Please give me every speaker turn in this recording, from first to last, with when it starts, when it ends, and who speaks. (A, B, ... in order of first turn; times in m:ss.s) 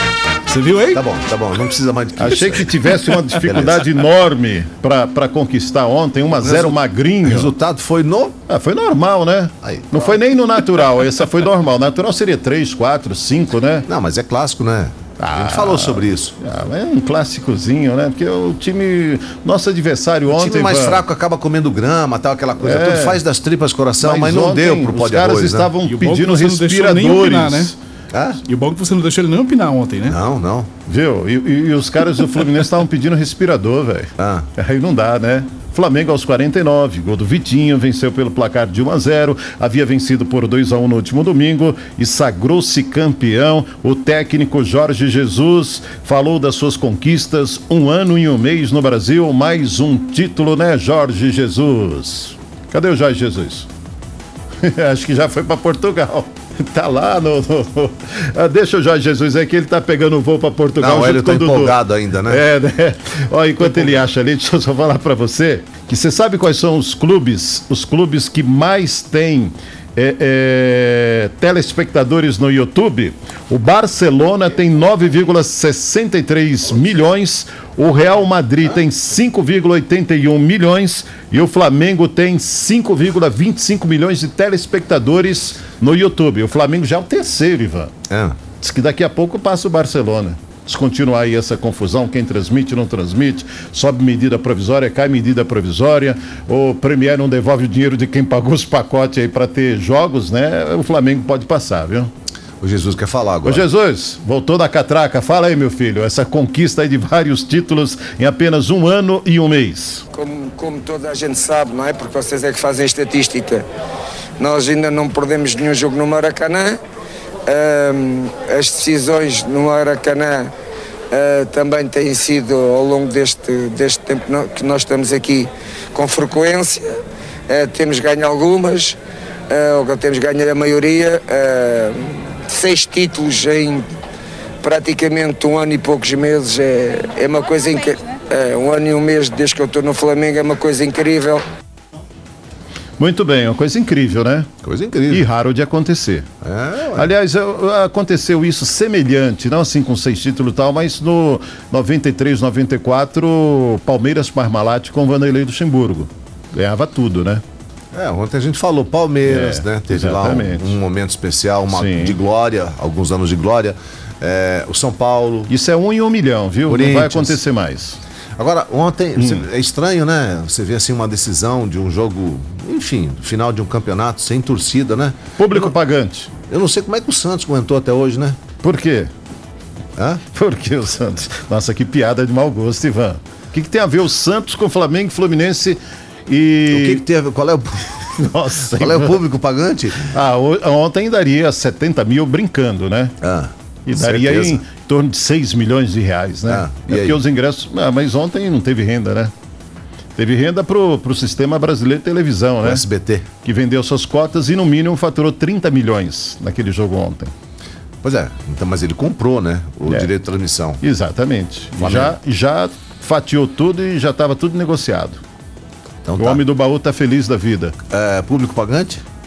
0:00.5-0:01.0 A
0:00.9-0:02.8 B
0:02.2-0:07.5 C
0:03.4-0:04.0 B
0:06.4-0:08.4 B
0:08.5-0:13.9 C
0:09.6-0:10.2 B
0:13.9-0:16.4 B
0:15.2-0:21.0 C
0:20.3-0:25.7 B
0:22.6-0:23.2 C
0:24.0-0:27.8 C
0:25.8-0:27.8 A
0:28.1-0:28.4 B
0:28.4-0:30.2 A
0:30.1-0:30.7 B
0:30.9-0:53.7 C
0:34.2-0:34.5 B
0:54.6-1:28.0 C
1:00.8-1:02.4 B
1:28.1-1:28.4 B
1:28.6-1:42.1 C
1:42.6-1:43.7 B
1:43.4-1:50.0 C
1:50.1-1:53.6 D
1:54.4-1:56.8 D
1:57.5-2:00.5 D
2:01.1-2:09.0 D
2:09.5-2:13.8 D
2:14.6-2:21.4 D
2:23.0-2:24.5 C
2:24.6-2:25.2 B
2:25.1-2:26.3 C
2:26.4-2:27.1 B
2:27.0-2:37.4 C
2:37.9-2:45.5 B
2:39.3-2:40.8 C
2:41.7-2:42.2 C
2:45.5-2:48.0 C
2:46.7-2:47.4 B
2:48.4-2:55.7 B
2:49.2-2:49.4 C
2:55.4-2:56.3 C
2:56.5-2:58.4 B
2:58.6-2:59.1 C
3:00.0-3:00.2 B
3:00.3-3:07.0 C
3:06.7-3:08.0 B
3:08.0-3:09.2 C
3:08.6-3:10.1 B
3:10.1-3:13.2 C
3:13.2-3:14.6 B
3:13.9-3:19.3 C
3:16.5-3:17.2 B
3:20.2-3:22.8 C
3:22.6-3:23.3 B
3:23.4-3:27.3 C
3:28.0-3:30.8 B
3:30.8-3:35.2 C
3:31.8-3:32.2 B
3:36.0-3:36.4 B
3:36.2-3:37.8 C
3:37.9-3:39.0 B